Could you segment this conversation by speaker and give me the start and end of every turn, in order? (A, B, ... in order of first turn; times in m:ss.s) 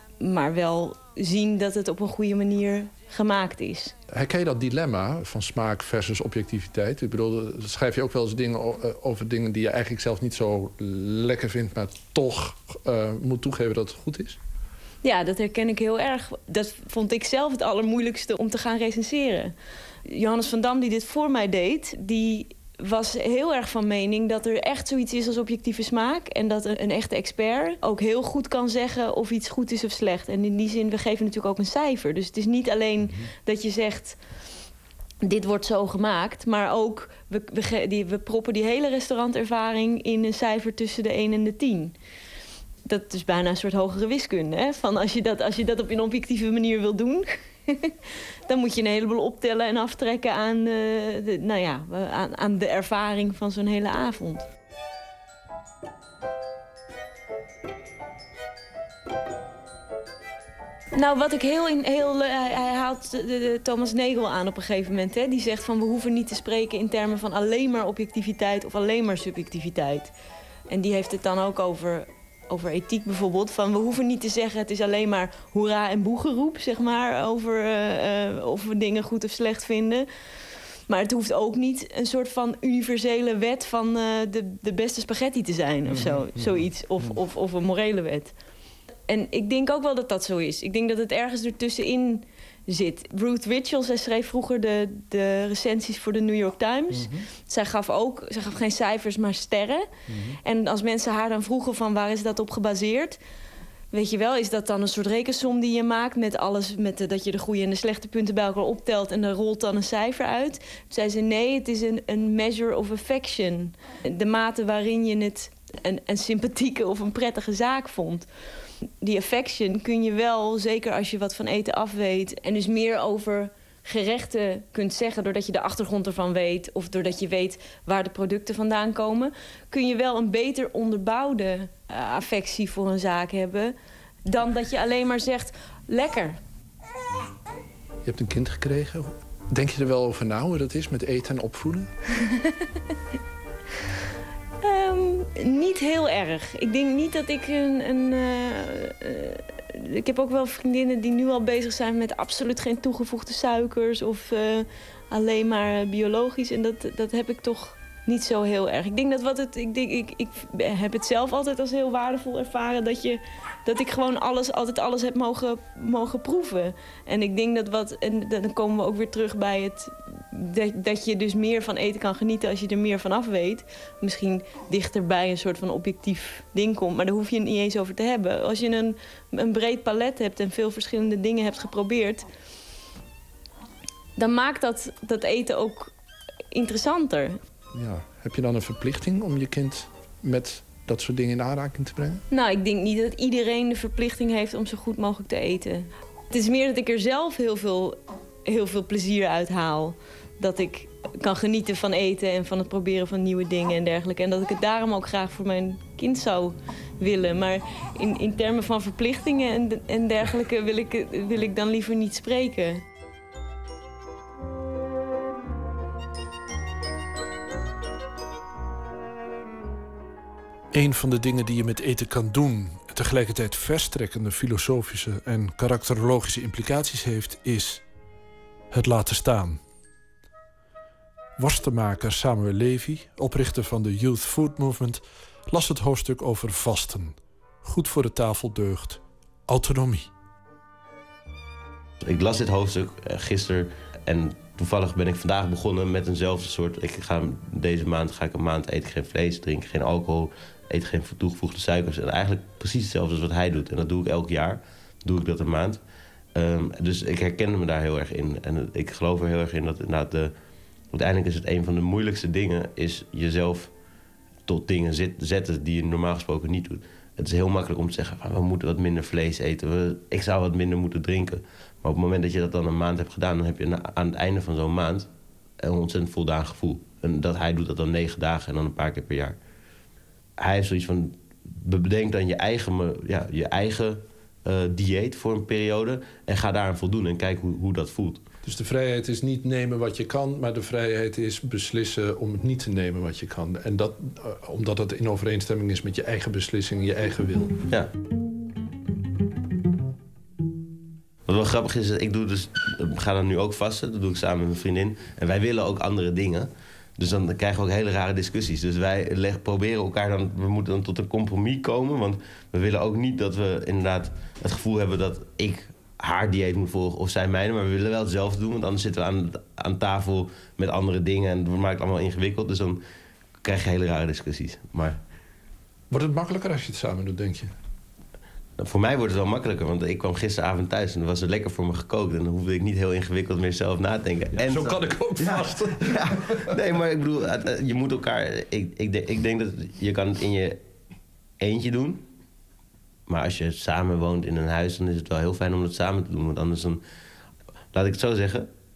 0:00.2-0:03.9 A
0:04.1-0:14.4 B
0:15.0-0:19.5 A
0:20.1-0:34.2 A
0:35.2-0:41.9 A
0:42.9-0:47.2 A
0:48.5-0:54.4 A
1:01.0-1:10.1 A
1:10.7-1:20.0 A
1:20.9-1:28.3 A
1:29.1-1:39.8 A
1:40.4-1:43.2 A
1:43.9-1:58.2 A
1:59.0-2:13.7 A
2:14.2-2:16.4 A
2:18.0-2:21.9 B
2:24.6-2:29.3 A
2:30.0-3:02.2 A
3:04.2-3:05.9 A
3:06.5-3:07.3 A
3:07.7-3:12.2 B
3:12.3-3:18.0 A
3:18.5-3:32.8 A
3:40.7-3:47.8 B
3:48.7-3:49.6 B
3:51.4-4:00.1 B
4:02.0-4:15.8 C
4:16.4-4:20.3 C
4:20.9-4:23.7 C
4:24.5-4:35.1 C
4:35.6-4:39.4 C
4:40.4-4:48.2 C
4:48.4-4:57.6 B
5:01.3-5:22.8 C
5:23.4-5:25.0 C
5:25.9-5:27.5 B
5:28.6-5:40.6 C
5:34.3-5:35.9 B
5:41.4-5:42.0 C
5:43.1-5:46.8 C
5:47.7-5:48.5 C